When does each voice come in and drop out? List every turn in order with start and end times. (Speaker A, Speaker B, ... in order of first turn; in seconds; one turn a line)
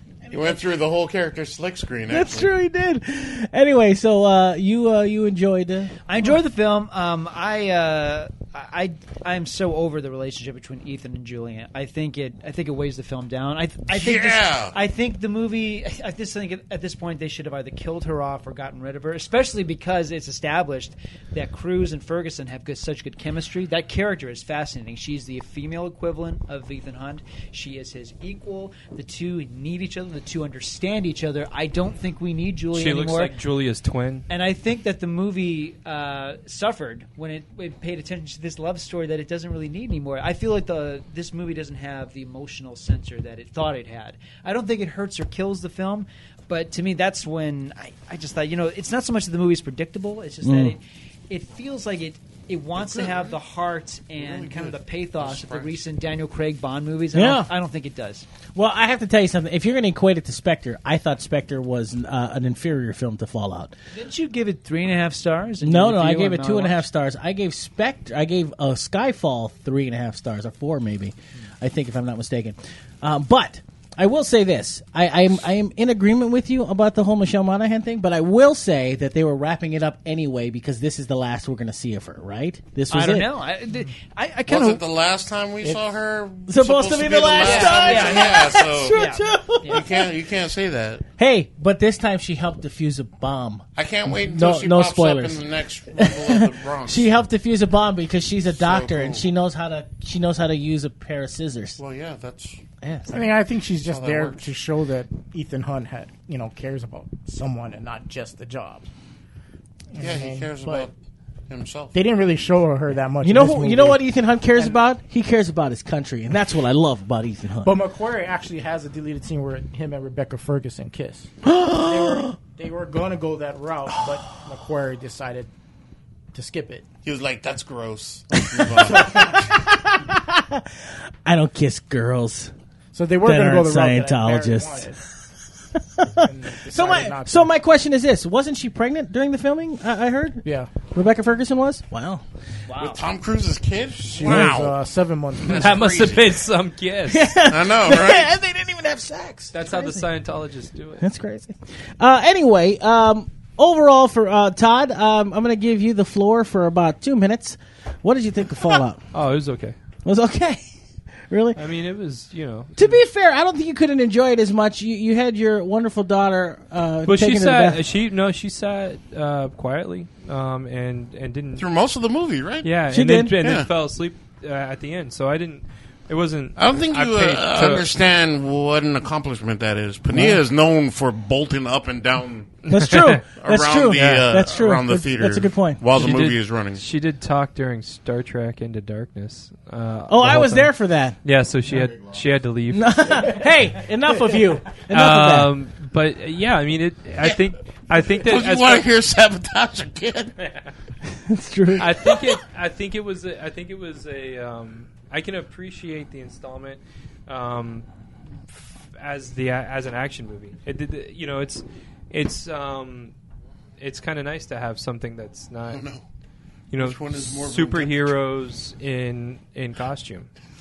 Speaker A: 0.3-2.5
Speaker B: 2.1-5.9
Speaker C: 6.1-33.3
Speaker A: 13.9-14.7
Speaker D: 32.7-34.2
Speaker C: 34.3-58.2
Speaker B: 50.4-50.8
Speaker A: 52.8-53.4
Speaker A: 54.1-55.8
Speaker B: 57.1-57.5
Speaker B: 58.5-63.7
Speaker C: 63.9-66.8
Speaker B: 65.6-83.3
Speaker C: 82.9-84.8
Speaker A: 84.5-89.0
Speaker B: 86.5-90.0
Speaker C: 87.4-89.8
Speaker A: 89.7-91.0
Speaker B: 91.2-93.6
Speaker A: 93.8-97.1
Speaker B: 94.2-101.8
Speaker A: 98.5-99.3
Speaker A: 101.8-102.6
Speaker B: 102.8-103.2
Speaker E: 103.1-108.8
Speaker A: 103.8-104.5
Speaker E: 109.9-110.9
Speaker A: 110.0-110.9
Speaker A: 111.5-111.9
Speaker E: 111.9-114.0
Speaker B: 113.2-117.8
Speaker E: 117.6-125.5
Speaker B: 121.4-122.3
Speaker E: 126.3-126.8
Speaker A: 127.0-129.4
Speaker B: 128.3-130.6
Speaker E: 128.8-129.4
Speaker B: 131.2-132.5
Speaker E: 132.9-135.0
Speaker B: 133.2-134.9
Speaker B: 135.7-142.2
Speaker E: 136.2-137.5
Speaker E: 140.4-140.7
Speaker C: 142.7-143.1
Speaker A: 142.8-144.8
Speaker E: 144.1-145.9
Speaker A: 145.4-146.4
Speaker D: 145.4-147.3
Speaker B: 147.1-150.0
Speaker A: 147.4-148.3
Speaker D: 149.5-151.0
Speaker B: 151.0-159.0
Speaker D: 159.1-159.7
Speaker B: 160.0-160.6
Speaker B: 161.3-161.6
Speaker D: 161.6-163.0
Speaker B: 162.8-167.8
Speaker D: 167.1-171.7
Speaker A: 171.6-172.7
Speaker D: 172.6-177.9
Speaker B: 172.9-173.3
Speaker A: 173.4-173.7
Speaker A: 176.6-182.6
Speaker B: 180.1-180.4
Speaker B: 182.7-185.8
Speaker D: 182.7-183.2
Speaker A: 183.3-186.8
Speaker D: 185.9-190.7
Speaker B: 190.1-191.2
Speaker D: 191.2-193.4
Speaker B: 192.7-195.5
Speaker D: 194.9-198.9
Speaker A: 198.1-200.3
Speaker B: 201.2-201.9
Speaker D: 201.8-207.8
Speaker D: 208.5-213.1
Speaker D: 213.8-215.8
Speaker A: 215.7-216.0
Speaker D: 216.7-220.3
Speaker A: 216.8-218.1